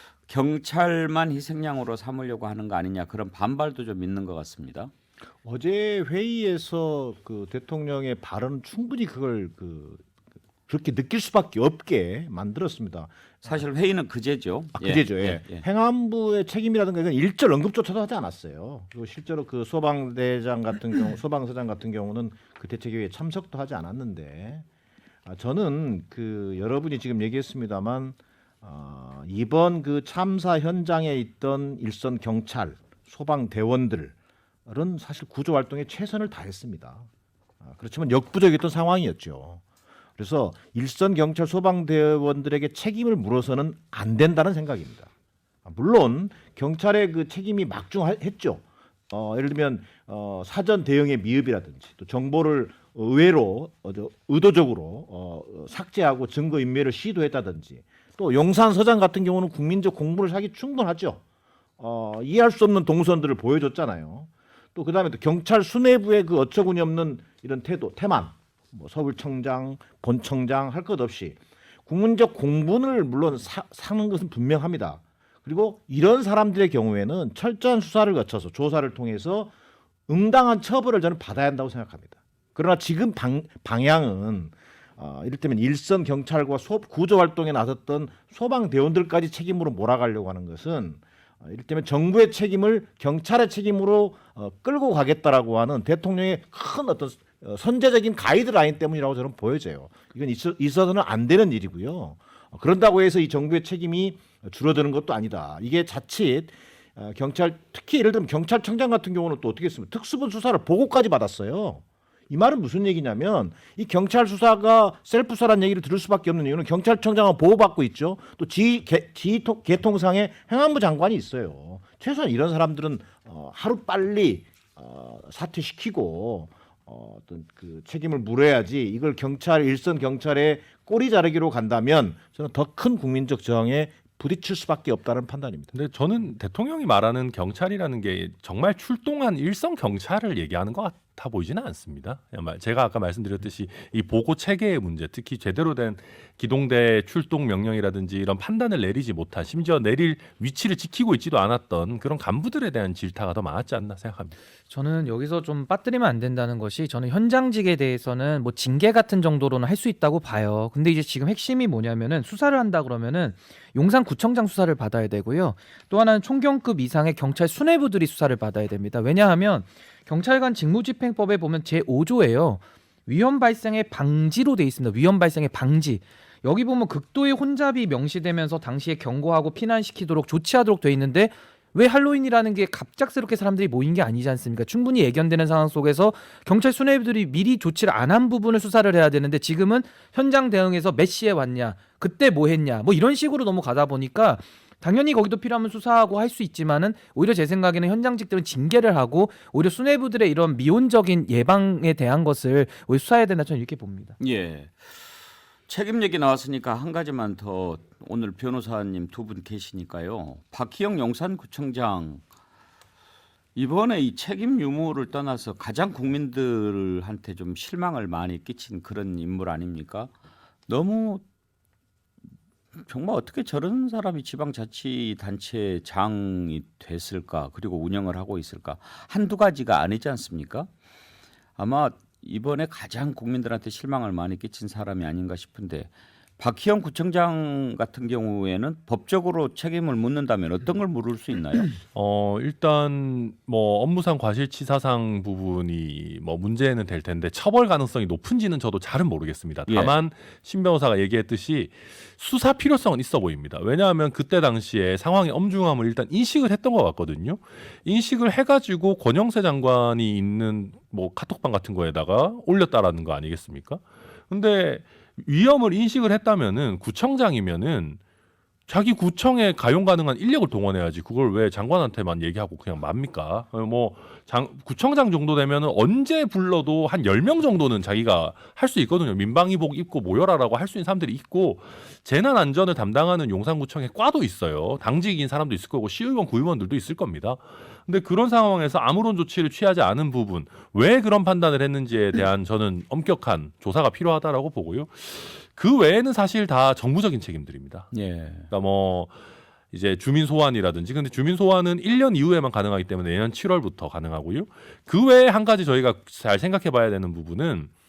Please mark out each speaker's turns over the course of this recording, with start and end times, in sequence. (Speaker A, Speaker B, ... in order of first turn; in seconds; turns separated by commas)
Speaker A: 0.3-4.9, Speaker B: 5.4-10.1, Speaker B: 10.7-13.1, Speaker A: 13.4-15.6, Speaker B: 14.8-24.6, Speaker B: 25.3-34.1, Speaker B: 34.7-37.1, Speaker B: 37.6-39.6, Speaker B: 40.2-45.1, Speaker B: 45.6-61.2, Speaker B: 61.8-79.5, Speaker B: 80.1-135.7, Speaker C: 135.7-154.3, Speaker D: 154.7-204.2, Speaker A: 204.2-204.9, Speaker A: 205.7-212.2, Speaker A: 213.6-220.1, Speaker A: 220.7-221.2, Speaker A: 222.9-230.7, Speaker A: 231.6-241.8, Speaker C: 241.9-268.0, Speaker A: 249.7-249.9, Speaker C: 268.7-297.9, Speaker A: 297.9-298.5, Speaker C: 298.5-299.2, Speaker C: 299.7-307.7